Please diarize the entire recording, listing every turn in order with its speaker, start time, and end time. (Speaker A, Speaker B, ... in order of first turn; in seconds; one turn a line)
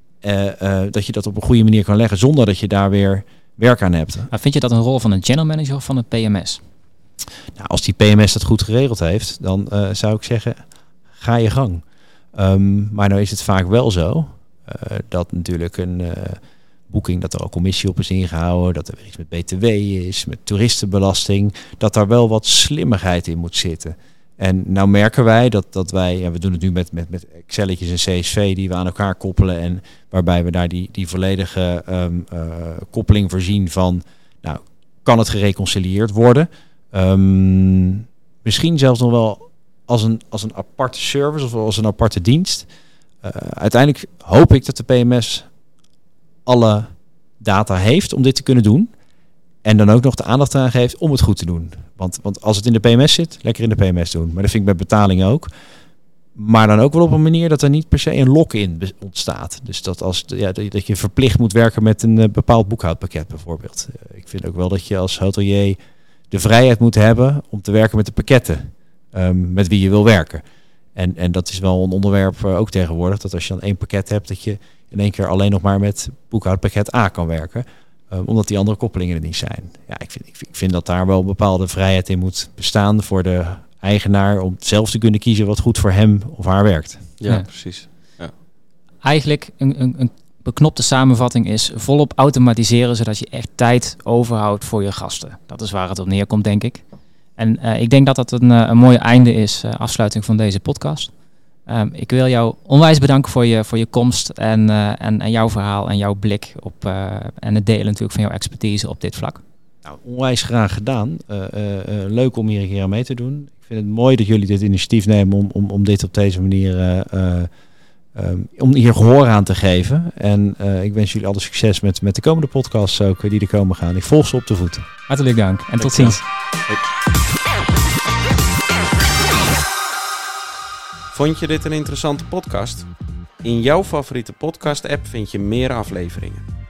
Speaker A: 0.2-4.3
Speaker B: 4.3-6.6
Speaker A: 7.5-10.6
Speaker A: 11.2-11.8
Speaker A: 12.3-42.7
Speaker A: 43.2-45.5
Speaker A: 46.5-48.9
Speaker A: 49.6-55.5
Speaker A: 56.4-65.8
Speaker A: 66.3-70.4
Speaker A: 71.0-87.1
Speaker C: 87.2-88.3
Speaker B: 89.0-96.8
Speaker B: 97.4-101.1
Speaker B: 101.7-109.4
Speaker A: 109.8-117.5
Speaker A: 118.1-124.8
Speaker B: 125.1-126.2
Speaker C: 131.1-132.9
Speaker C: 133.4-136.4